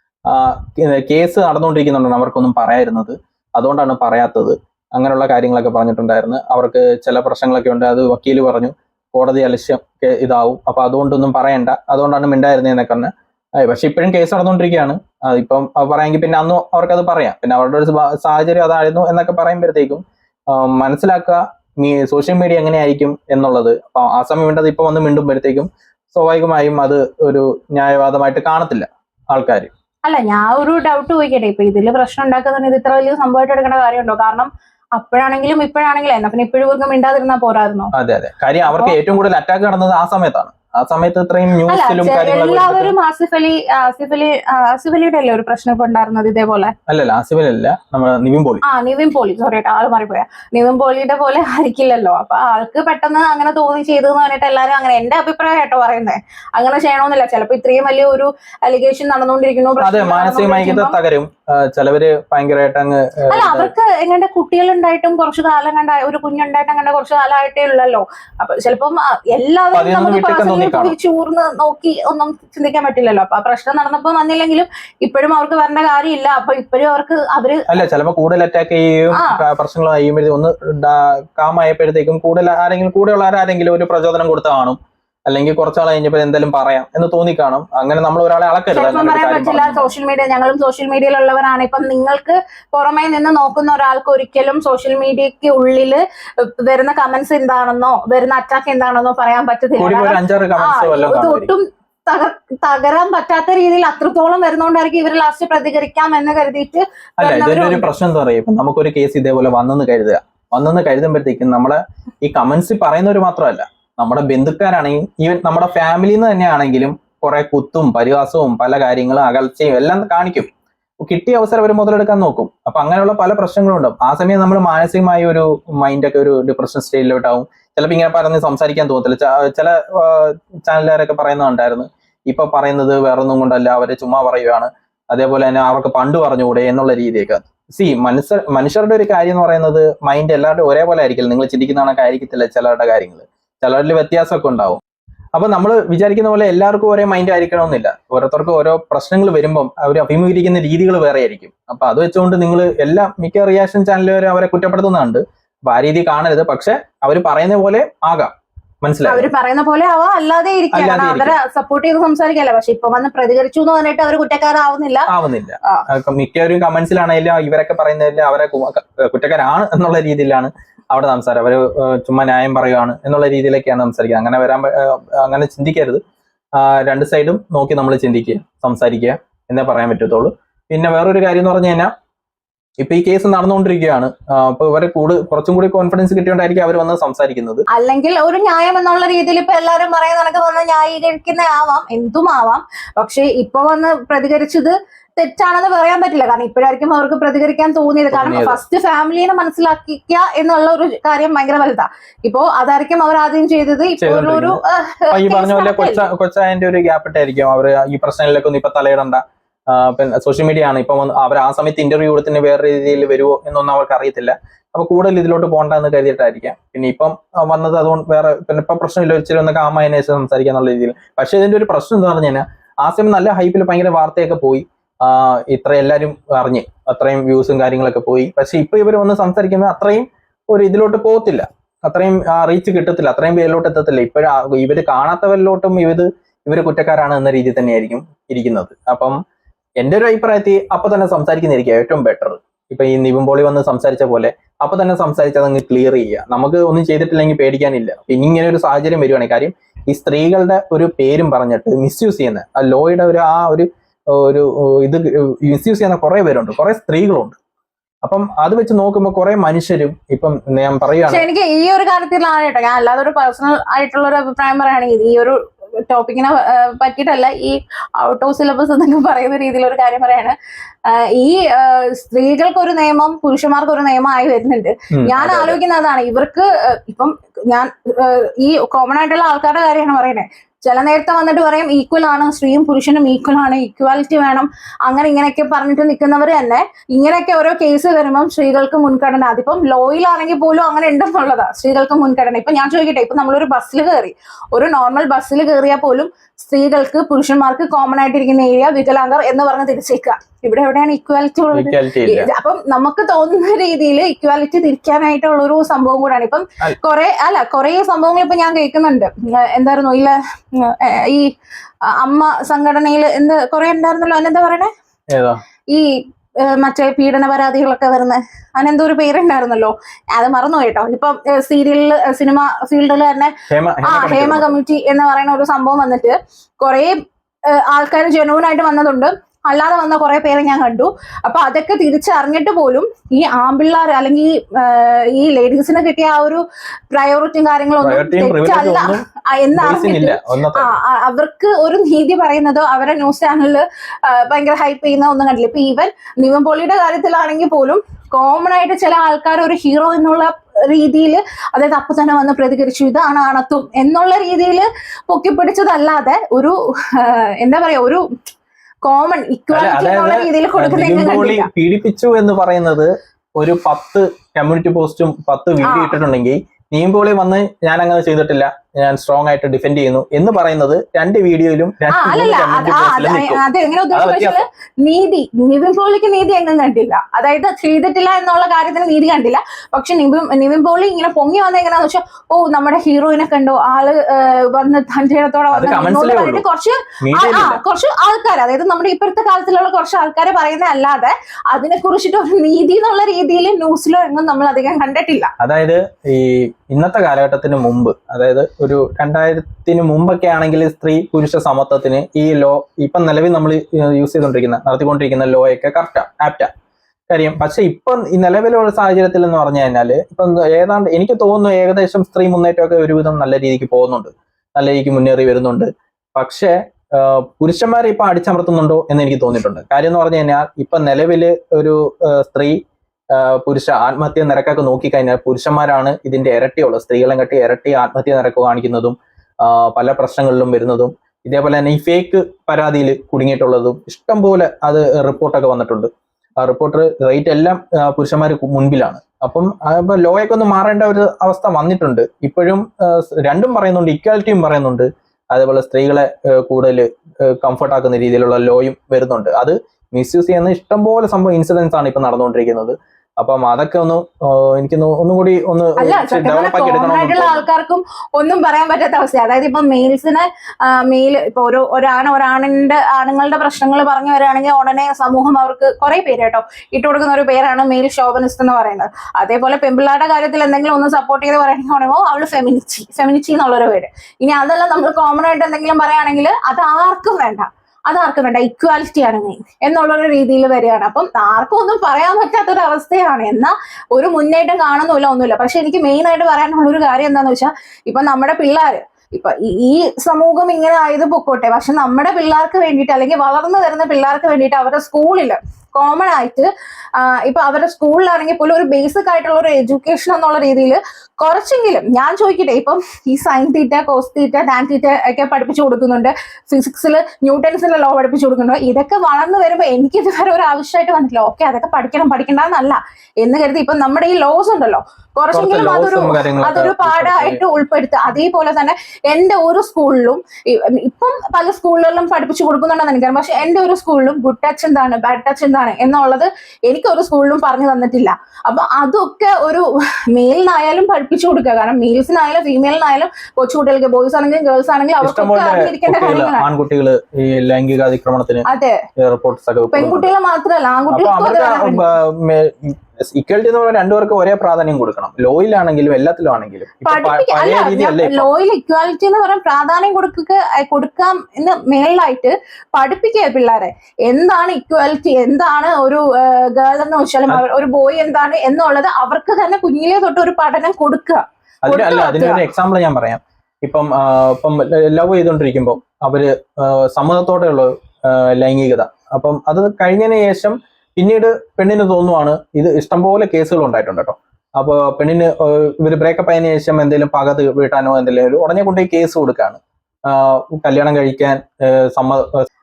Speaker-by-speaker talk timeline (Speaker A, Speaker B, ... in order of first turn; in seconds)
Speaker A: 0.3-29.7, 37.9-42.9, 46.9-48.6, 59.8-63.7, 69.7-70.9, 77.7-89.9, 99.8-101.5, 107.2-120.5, 121.0-144.8, 145.3-158.3, 158.8-159.3, 160.7-161.3, 165.1-176.0, 176.6-181.9, 182.8-187.7, 198.1-198.6, 204.0-204.6, 205.1-239.2, 239.8-257.4, 258.0-261.2, 274.9-275.6, 301.5-302.3, 315.1-315.4, 323.5-324.6, 337.8-339.0, 339.6-340.7, 359.5-374.4, 385.5-386.4, 387.0-387.6, 395.4-406.5, 407.1-422.6, 423.1-457.4, 515.3-517.4, 535.0-538.5, 539.0-540.1, 540.9-548.3, 561.6-582.4
Speaker B: 30.0-37.9, 38.7-38.9, 41.7-46.7, 48.6-60.9, 63.3-77.8, 88.7-107.9, 159.1-165.1, 187.7-206.0, 261.1-265.4, 265.9-270.3, 270.9-311.3, 311.9-314.7, 316.4-326.9, 327.5-358.0, 358.8-361.5, 365.6-365.9, 371.9-395.3, 455.8-536.5, 538.5-538.8, 539.7-541.9, 546.8-562.4